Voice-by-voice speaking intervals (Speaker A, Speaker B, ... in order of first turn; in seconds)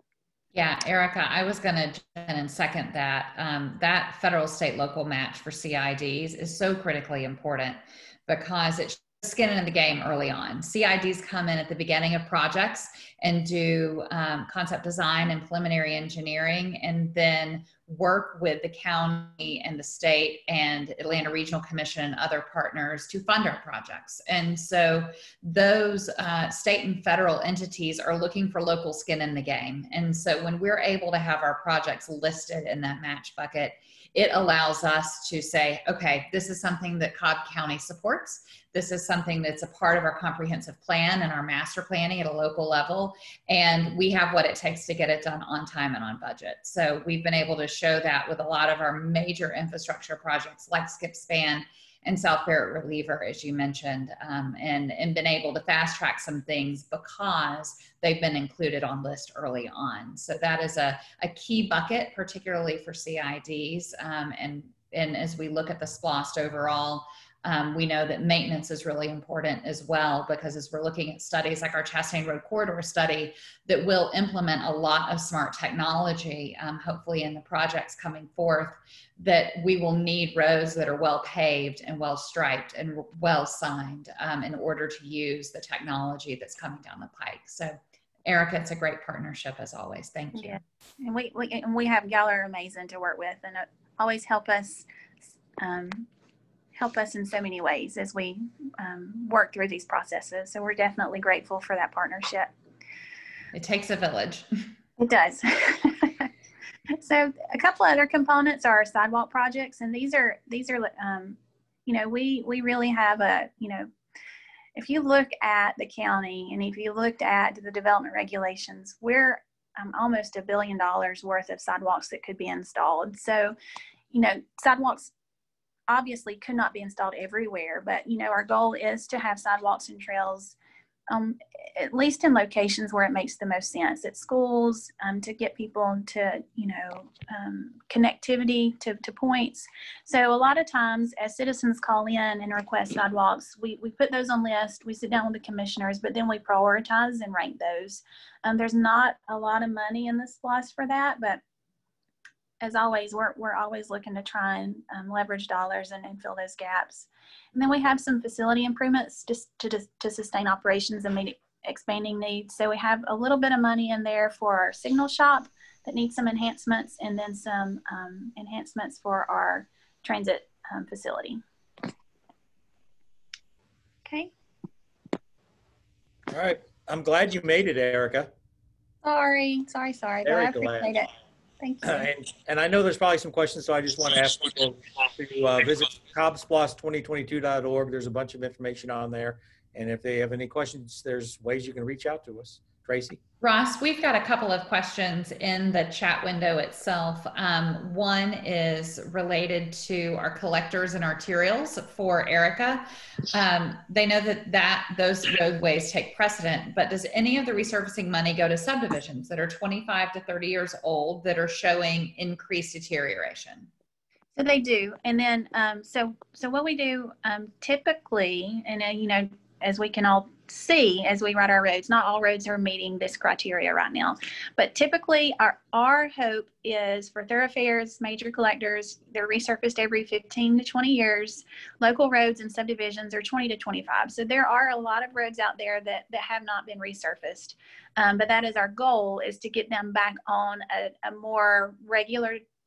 Speaker A: 0.5-90.6, 103.5-104.5, 193.4-213.7
Speaker B: 90.3-94.8, 95.6-96.1, 96.7-102.5, 105.0-106.3, 107.0-113.9, 114.7-123.5, 124.1-125.1, 125.9-130.6, 131.1-151.4, 152.6-171.4, 174.0-174.3, 179.0-181.1, 181.6-182.1, 214.3-242.4
Speaker C: 176.3-178.3, 180.2-180.9, 181.8-193.2